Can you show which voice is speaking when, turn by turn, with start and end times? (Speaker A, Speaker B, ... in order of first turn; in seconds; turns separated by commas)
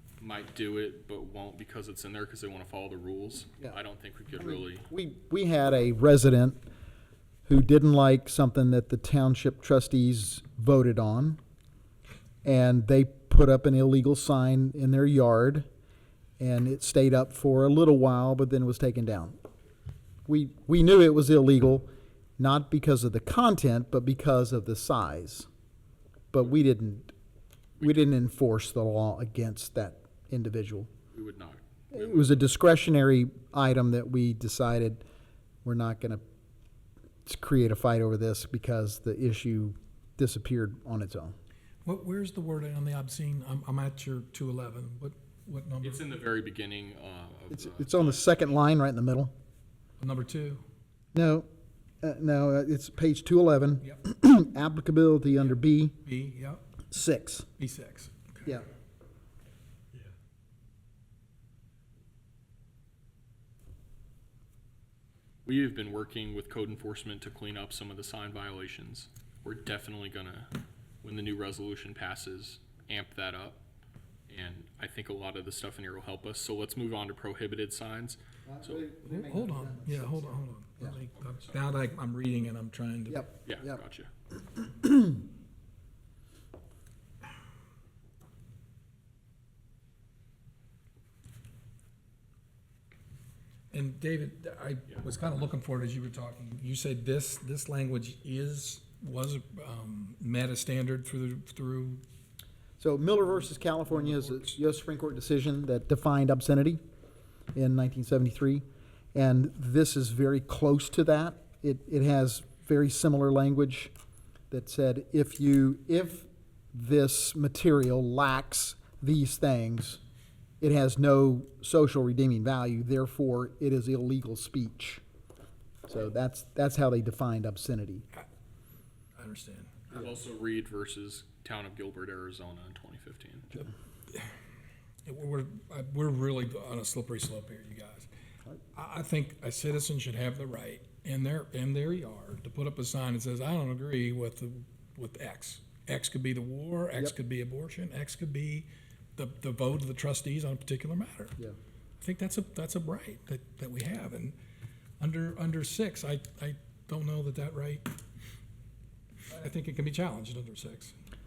Speaker A: 0.2-4.9, Speaker B: 4.4-6.6, Speaker B: 7.5-11.4, Speaker B: 12.4-15.7, Speaker B: 16.4-19.4, Speaker B: 20.2-25.5, Speaker B: 26.3-27.1, Speaker B: 27.8-30.9, Speaker A: 31.1-32.5, Speaker B: 31.9-35.0, Speaker B: 35.6-36.2, Speaker B: 37.2-41.3, Speaker C: 41.8-46.0, Speaker A: 45.8-48.6, Speaker B: 47.5-49.3, Speaker C: 50.0-50.6, Speaker B: 51.1-51.5, Speaker B: 52.0-56.0, Speaker C: 56.0-56.6, Speaker B: 56.9-57.5, Speaker C: 57.6-58.5, Speaker A: 65.4-70.5, Speaker A: 71.0-73.6, Speaker A: 74.3-78.8, Speaker B: 78.5-81.0, Speaker C: 79.0-83.2, Speaker A: 81.1-81.6, Speaker B: 83.1-83.8, Speaker A: 83.4-84.1, Speaker B: 84.6-85.2, Speaker C: 93.7-102.0, Speaker B: 102.8-106.8, Speaker C: 103.9-104.5, Speaker B: 107.5-113.9, Speaker B: 114.5-120.0, Speaker B: 120.6-125.0, Speaker B: 125.8-128.0, Speaker C: 129.1-129.9, Speaker A: 129.9-133.7, Speaker C: 135.1-138.1, Speaker C: 138.7-151.3, Speaker C: 152.0-154.3, Speaker C: 155.0-157.9, Speaker C: 159.3-160.9